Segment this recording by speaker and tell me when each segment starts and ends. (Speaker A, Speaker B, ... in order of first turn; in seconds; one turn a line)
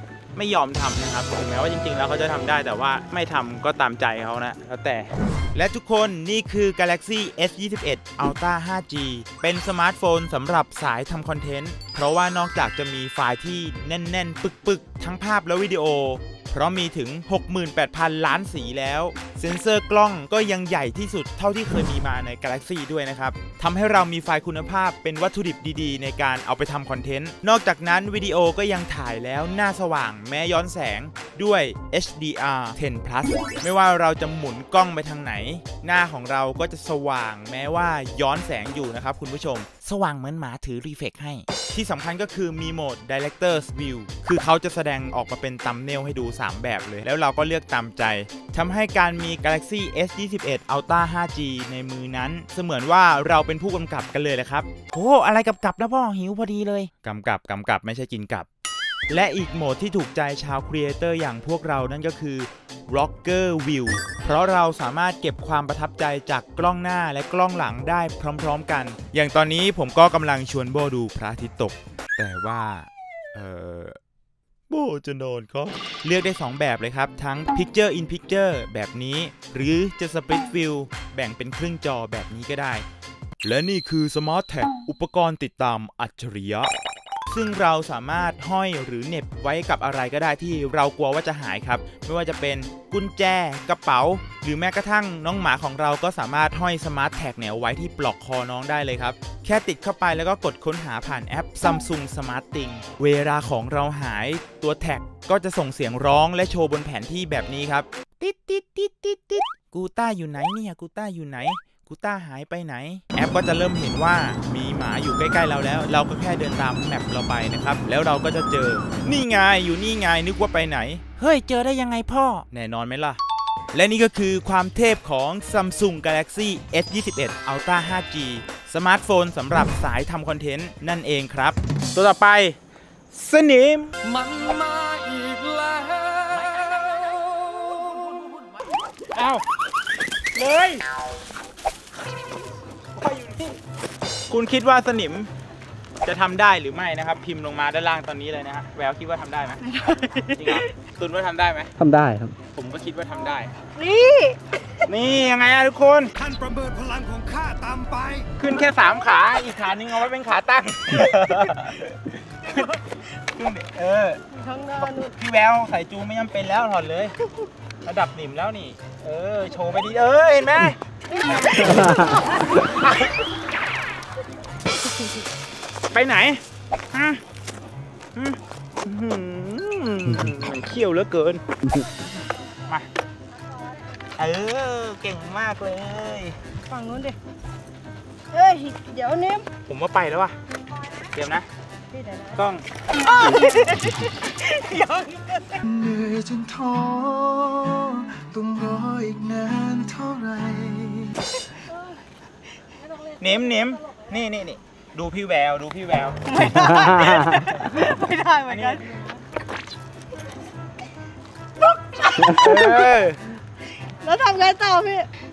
Speaker A: 0.3-58.5
Speaker A: 59.1-74.0
Speaker A: 74.7-82.9
Speaker A: 83.4-86.7
Speaker A: 87.3-123.2
Speaker A: 123.7-132.6
Speaker A: 133.1-133.9
Speaker B: 134.0-138.6
Speaker A: 136.4-136.9
Speaker A: 139.1-139.4
Speaker A: 140.3-140.8
Speaker A: 142.9-143.6
Speaker A: 144.3-145.3
Speaker A: 146.0-151.7
Speaker C: 149.8-150.6
Speaker D: 151.8-152.4
Speaker A: 152.4-153.6
Speaker C: 153.8-154.4
Speaker A: 154.9-156.2
Speaker B: 156.2-158.3
Speaker D: 156.3-157.1
Speaker A: 158.3-164.2
Speaker C: 164.3-165.1
Speaker A: 164.8-167.3
Speaker A: 167.8-172.0
Speaker C: 171.2-172.2
Speaker D: 171.8-172.2
Speaker A: 172.7-173.1
Speaker A: 175.9-177.2
Speaker A: 178.2-181.4
Speaker A: 184.2-186.4
Speaker C: 186.7-187.2
Speaker C: 188.3-189.5
Speaker A: 189.7-190.4
Speaker A: 191.1-191.5
Speaker C: 191.9-192.4
Speaker A: 192.3-193.1
Speaker C: 193.0-195.8
Speaker B: 195.7-201.2
Speaker A: 203.2-206.4
Speaker C: 206.3-209.2
Speaker D: 206.6-207.4
Speaker A: 208.5-208.9
Speaker C: 211.6-212.2
Speaker D: 212.2-212.7
Speaker A: 212.3-213.2
Speaker C: 214.0-215.1